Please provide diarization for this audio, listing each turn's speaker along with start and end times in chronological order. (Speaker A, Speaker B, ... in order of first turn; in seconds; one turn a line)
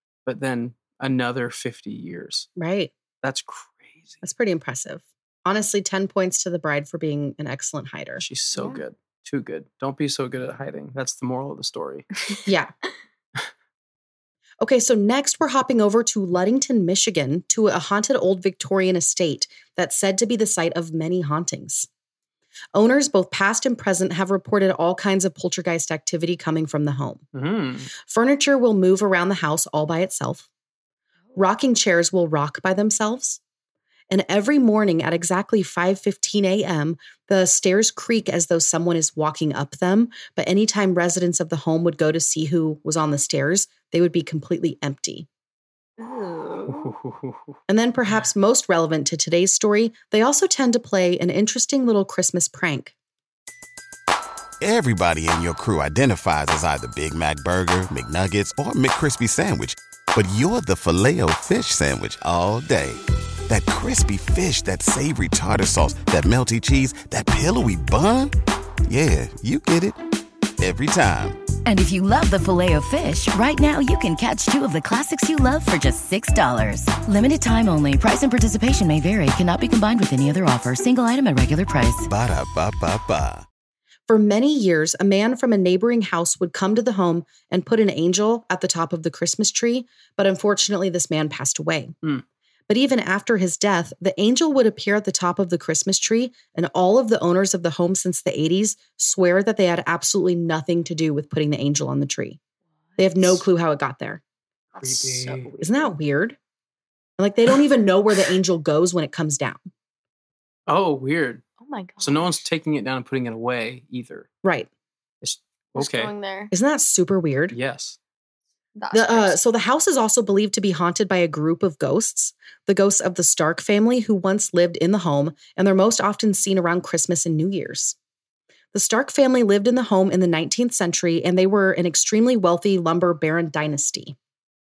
Speaker A: 0.2-2.5
Speaker B: 2.6-2.9
Speaker A: 3.2-4.2
Speaker B: 4.2-8.2
Speaker A: 8.2-12.1
Speaker C: 8.5-8.8
Speaker B: 12.4-12.7
Speaker B: 14.6-21.9
Speaker B: 22.7-27.2
Speaker A: 27.3-27.9
Speaker B: 28.0-30.4
Speaker B: 31.4-33.4
Speaker B: 34.1-45.3
Speaker C: 46.0-46.9
Speaker A: 46.7-47.4
Speaker B: 47.7-52.9
Speaker D: 54.6-68.3
Speaker D: 68.9-70.0
Speaker D: 70.6-71.4
Speaker E: 71.7-82.0
Speaker D: 82.0-83.5
Speaker B: 84.1-91.9
Speaker B: 92.7-102.4
Speaker B: 103.0-104.2
Speaker C: 104.7-105.9
Speaker A: 104.8-105.5
Speaker B: 105.6-106.4
Speaker B: 107.2-109.6
Speaker A: 110.7-111.4
Speaker C: 111.6-112.4
Speaker A: 112.0-114.3
Speaker B: 114.4-114.7
Speaker A: 115.2-116.1
Speaker C: 115.8-116.5
Speaker B: 116.5-117.5
Speaker A: 117.5-118.0
Speaker C: 118.8-119.4
Speaker B: 118.9-128.0
Speaker B: 128.7-134.2